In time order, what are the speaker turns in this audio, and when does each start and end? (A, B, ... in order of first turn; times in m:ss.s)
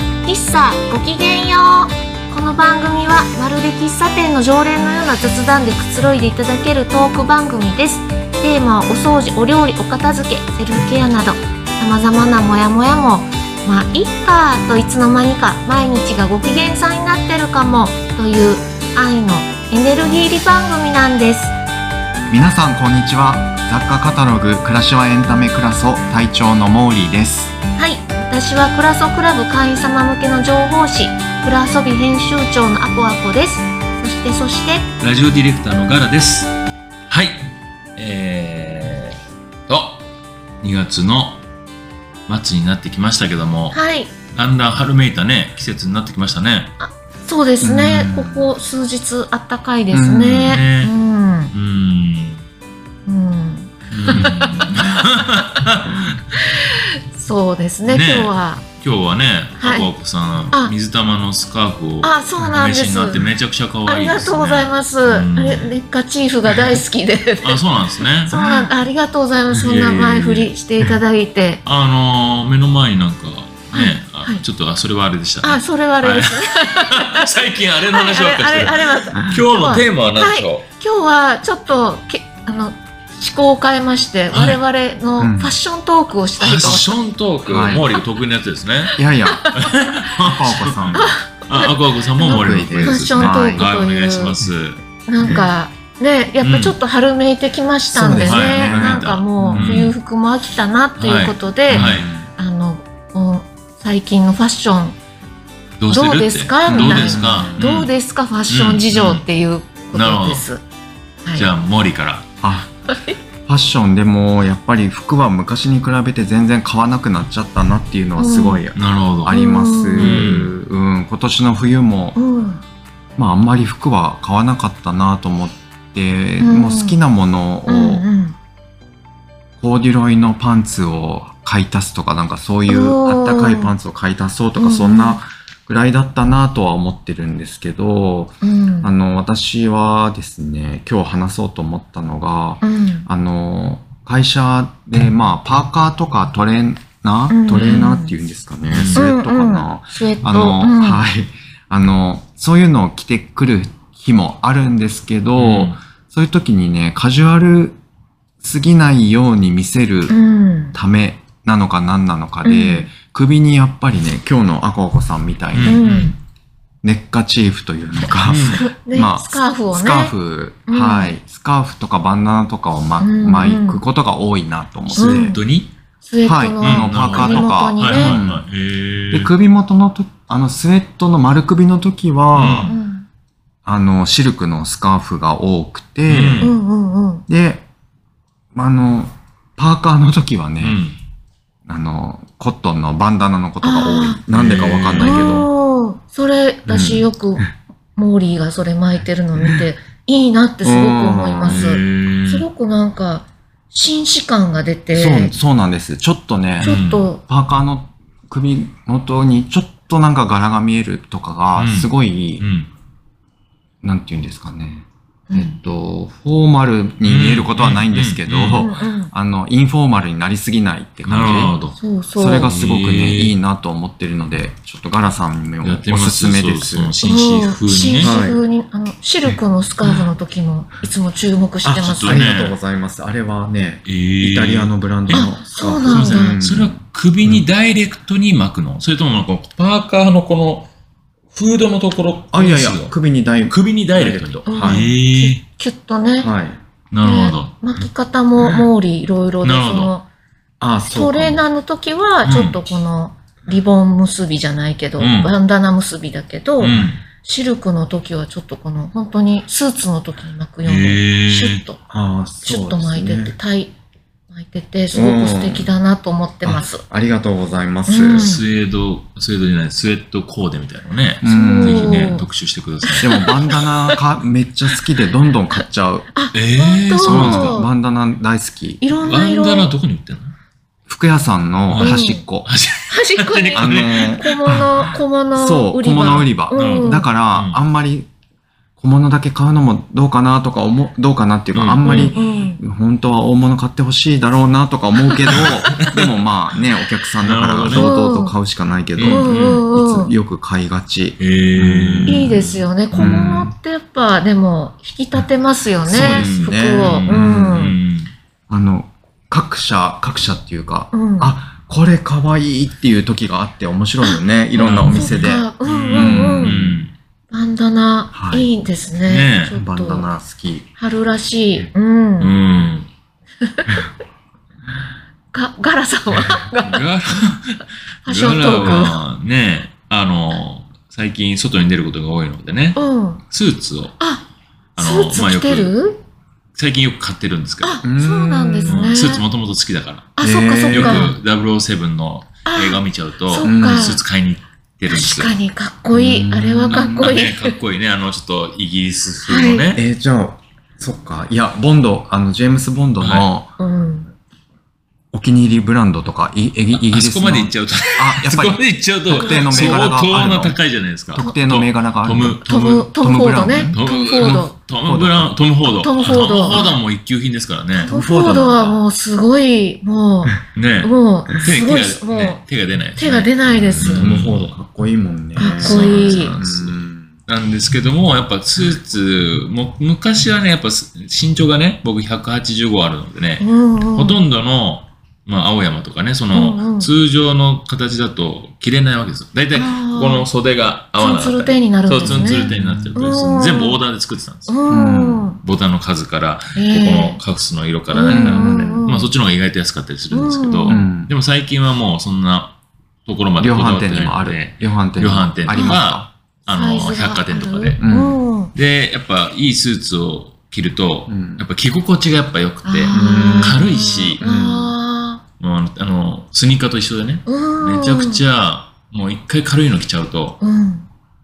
0:00.2-0:21.6 A
0:22.3-0:27.5 B
0:27.8-0:34.9 A
0:35.0-0:36.5 C
0:37.1-0:39.2 C
0:39.7-0:40.0 C
0:40.6-0:41.4 C
0:42.3-0:43.8 C
0:43.7-0:44.1 A
0:44.3-0:46.7 C
0:46.8-0:51.5 A
0:47.6-0:48.5 B
0:49.9-0:50.6 B
0:50.4-0:50.9 C
0:51.5-0:52.4 C
0:53.0-0:54.9 A
0:53.9-0:56.2 C
0:56.3-0:58.6 A
0:57.8-1:05.7 C
0:59.6-0:59.9 A
1:02.0-1:03.2 A
1:03.8-1:07.6 A
1:07.4-1:08.4 C
1:08.2-1:11.6 A
1:09.6-1:10.5 C
1:11.6-1:20.6 C
1:13.7-1:14.4 A
1:15.4-1:17.3 A
1:17.8-1:27.0 A
1:24.3-1:24.6 C
1:25.2-1:25.6 B
1:26.4-1:28.9 C
1:27.4-1:27.8 B
1:29.0-1:29.5 B
1:29.3-1:29.7 A
1:29.5-1:34.8 C
1:30.2-1:31.2 B
1:30.9-1:34.4 A
1:32.2-1:33.6 B
1:35.1-1:45.0 A
1:35.2-1:35.5 B
1:36.4-1:36.8 C
1:37.9-1:39.9 B
1:38.2-1:39.9 C
1:41.0-1:42.1 C
1:41.7-1:42.3 B
1:45.8-1:47.9 C
1:45.9-1:50.6 A
1:46.6-1:47.6 B
1:48.5-1:49.2 C
1:49.9-1:50.4 C
1:51.2-1:51.5 A
1:51.3-1:52.2 C
1:52.4-1:52.7 B
1:52.9-1:53.2 A
1:53.5-2:02.2 B
1:58.2-1:58.6 A
1:58.7-1:59.4 C
1:59.3-2:00.2 A
2:00.0-2:00.5 C
2:02.2-2:02.6 A
2:03.2-2:08.0 B
2:06.4-2:07.0 A
2:07.6-2:08.4 A
2:09.6-2:37.8 B
2:12.7-2:13.7 A
2:14.6-2:15.2 A
2:18.4-2:18.9 A
2:22.6-2:23.1 A
2:27.3-2:28.1 A
2:28.7-2:29.0 C
2:28.9-2:31.0 A
2:35.4-2:35.8 C
2:38.4-2:40.1 B
2:40.1-2:40.8 A
2:40.7-2:45.8 B
2:42.4-2:42.9 A
2:45.5-2:46.1 C
2:45.6-2:46.1 A
2:46.8-2:55.4 B
2:48.0-2:50.1 A
2:48.2-2:48.6 C
2:50.7-2:51.2 A
2:53.0-2:53.8 A
2:54.9-2:55.7 C
2:55.0-2:55.4 A
2:56.0-2:58.2 A
2:56.2-2:58.4 B
2:56.6-2:59.3 C
2:59.1-3:02.8 B
3:02.3-3:02.7 C
3:02.6-3:03.0 A
3:03.6-3:06.6 B
3:06.1-3:06.5 C
3:06.4-3:07.2 A
3:07.3-3:07.6 B
3:08.5-3:10.8 B
3:10.6-3:11.0 C
3:11.7-3:15.5 B
3:13.6-3:14.2 A
3:14.3-3:15.4 C
3:15.0-3:25.3 A
3:16.6-3:17.5 B
3:20.6-3:21.7 B
3:21.4-3:22.5 C
3:24.9-3:32.4 B
3:26.6-3:27.1 C
3:26.6-3:27.2 A
3:31.5-3:32.7 C
3:33.8-3:41.6 B
3:35.3-3:35.6 A
3:37.0-3:38.7 C
3:38.5-3:39.1 A
3:41.0-3:41.8 C
3:41.8-3:42.5 A
3:42.2-3:47.0 B
3:42.3-3:43.4 C
3:45.6-3:48.1 C
3:47.0-3:52.2 A
3:48.0-3:48.4 B
3:51.6-3:57.4 B
3:51.8-3:52.6 C
3:53.8-3:55.3 C
3:55.1-3:56.4 A
3:55.8-4:00.7 C
4:01.3-4:02.9 C
4:02.3-4:04.9 B
4:03.5-4:05.4 C
4:04.5-4:06.3 A
4:06.2-4:06.6 B
4:06.9-4:07.6 C
4:07.0-4:10.0 A
4:09.4-4:09.9 C
4:10.6-4:11.4 B
4:10.8-4:21.8 A
4:12.2-4:12.6 C
4:15.0-4:15.3 C
4:16.6-4:16.9 B
4:16.6-4:17.0 C
4:20.6-4:21.6 C
4:21.9-4:23.3 B
4:22.4-4:23.7 A
4:24.3-4:26.8 A
4:24.9-4:25.7 B
4:26.4-4:28.3 B
4:27.9-4:28.4 A
4:28.1-4:33.2 C
4:31.2-4:32.2 B
4:31.2-4:32.3 A
4:32.8-4:34.0 A
4:33.0-4:36.1 B
4:35.5-4:37.7 A
4:36.3-4:37.6 C
4:37.0-4:38.8 B
4:38.8-4:39.7 A
4:39.0-4:40.3 C
4:40.9-4:42.5 B
4:41.7-4:44.9 C
4:41.8-4:42.2 A
4:42.9-4:47.1 A
4:43.5-4:48.1 B
4:45.9-4:47.6 C
4:48.8-5:03.3 B
4:51.5-4:52.2 C
4:51.8-4:52.6 A
4:55.3-4:56.1 C
4:57.2-4:57.9 C
4:57.7-4:58.4 A
4:59.0-4:59.7 C
4:59.0-5:00.1 A
5:01.2-5:03.5 C
5:02.1-5:07.8 A
5:05.8-5:07.6 B
5:05.9-5:08.1 C
5:08.5-5:16.8 B
5:10.9-5:11.3 A
5:14.0-5:16.6 A
5:14.6-5:16.9 C
5:17.3-5:20.1 A
5:18.1-5:18.5 B
5:19.0-5:19.5 C
5:19.5-5:20.7 B
5:20.8-5:22.4 A
5:22.2-5:22.9 C
5:23.4-5:23.8 A
5:25.3-5:26.9 A
5:26.6-5:34.0 C
5:28.0-5:29.0 A
5:28.5-5:28.9 B
5:32.8-5:33.2 A
5:34.0-5:36.0 A
5:34.8-5:35.7 C
5:36.6-5:37.8 C
5:37.6-5:39.2 A
5:37.8-5:38.9 B
5:38.6-5:40.1 C
5:40.2-5:41.1 A
5:40.2-5:41.2 B
5:40.7-5:45.4 C
5:42.4-5:44.0 A
5:43.4-5:44.0 B
5:44.9-5:47.6 A
5:45.9-5:47.2 B
5:46.9-5:49.8 C
5:49.2-5:49.7 A
5:49.7-5:53.5 B
5:53.0-5:53.3 C
5:53.6-5:54.1 A
5:55.1-6:00.6 B
5:56.7-6:02.9 C
5:59.1-5:59.9 A
6:01.1-6:03.8 B
6:01.2-6:01.4 A
6:02.4-6:04.5 A
6:03.5-6:07.9 C
6:04.8-6:05.3 B
6:05.7-6:06.8 A
6:06.1-6:06.6 B
6:07.7-6:12.4 A
6:07.9-6:08.8 B
6:10.6-6:14.6 C
6:13.0-6:14.1 A
6:13.8-6:17.1 B
6:15.4-6:34.5 C
6:15.4-6:16.3 A
6:23.4-6:24.2 A
6:26.3-6:26.9 A
6:29.5-6:30.3 A
6:31.0-6:33.8 A
6:32.0-6:32.9 B
6:34.5-6:35.4 A
6:34.7-6:35.3 B
6:35.4-6:42.5 C
6:36.5-6:37.2 A
6:37.9-6:39.1 A
6:38.1-6:38.8 B
6:40.1-6:40.9 A
6:40.7-6:41.1 B
6:43.0-6:47.8 C
6:43.4-6:46.1 B
6:45.5-6:45.8 A
6:46.5-6:48.5 A
6:47.8-6:48.2 B
6:48.5-6:54.2 C
6:51.1-6:51.4 B
6:52.6-6:55.2 A
6:52.9-6:54.7 B
6:55.4-7:00.4 C
6:57.2-6:58.2 A
7:00.4-7:00.9 A